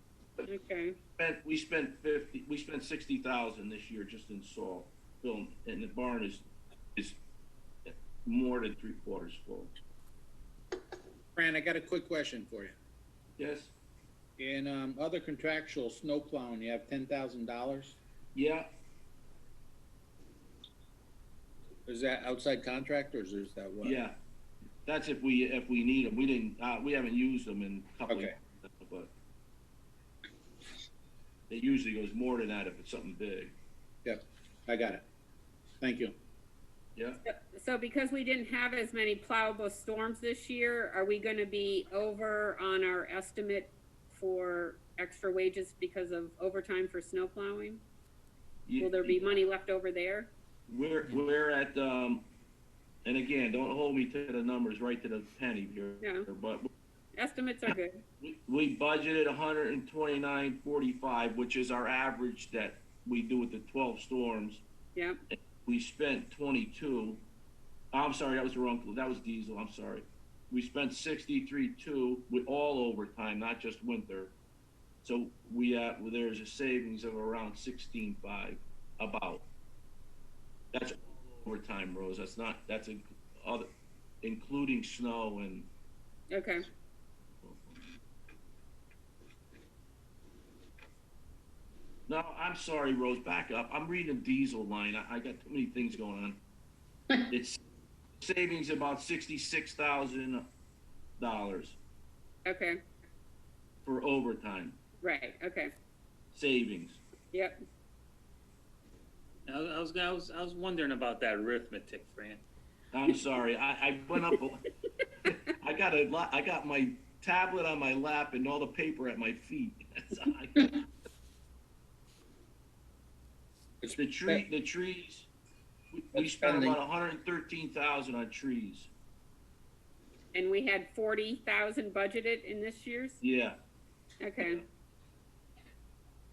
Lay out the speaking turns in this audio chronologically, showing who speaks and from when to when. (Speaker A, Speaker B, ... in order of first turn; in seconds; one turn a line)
Speaker A: 0.5-1.0
Speaker B: 1.2-7.2
Speaker B: 7.8-9.7
Speaker C: 11.3-12.7
Speaker B: 13.4-13.7
Speaker C: 14.4-18.0
Speaker B: 18.3-18.7
Speaker C: 21.9-24.0
Speaker B: 23.8-24.2
Speaker B: 24.8-29.1
Speaker C: 28.1-28.3
Speaker B: 31.5-33.5
Speaker C: 34.0-35.0
Speaker C: 35.8-36.1
Speaker B: 37.0-37.2
Speaker A: 37.2-47.8
Speaker B: 48.6-49.4
Speaker A: 48.8-50.3
Speaker B: 50.7-52.2
Speaker B: 53.0-56.7
Speaker A: 56.0-56.2
Speaker A: 57.2-58.0
Speaker B: 58.2-64.6
Speaker A: 64.9-65.2
Speaker B: 65.3-67.2
Speaker B: 67.9-74.3
Speaker B: 75.0-79.5
Speaker B: 80.7-83.7
Speaker B: 84.2-85.7
Speaker A: 86.3-86.6
Speaker B: 87.4-87.8
Speaker B: 92.1-96.4
Speaker B: 97.3-97.6
Speaker B: 98.2-100.5
Speaker B: 101.2-101.8
Speaker A: 102.5-102.8
Speaker B: 103.8-104.8
Speaker A: 105.0-105.7
Speaker B: 106.3-107.0
Speaker A: 107.3-107.6
Speaker D: 109.5-112.4
Speaker B: 112.9-114.7
Speaker B: 115.2-120.9
Speaker C: 123.8-124.4
Speaker B: 124.0-125.3
Speaker B: 125.9-128.9
Speaker C: 126.1-126.8
Speaker A: 130.3-133.2
Speaker B: 133.2-133.6
Speaker A: 134.2-134.6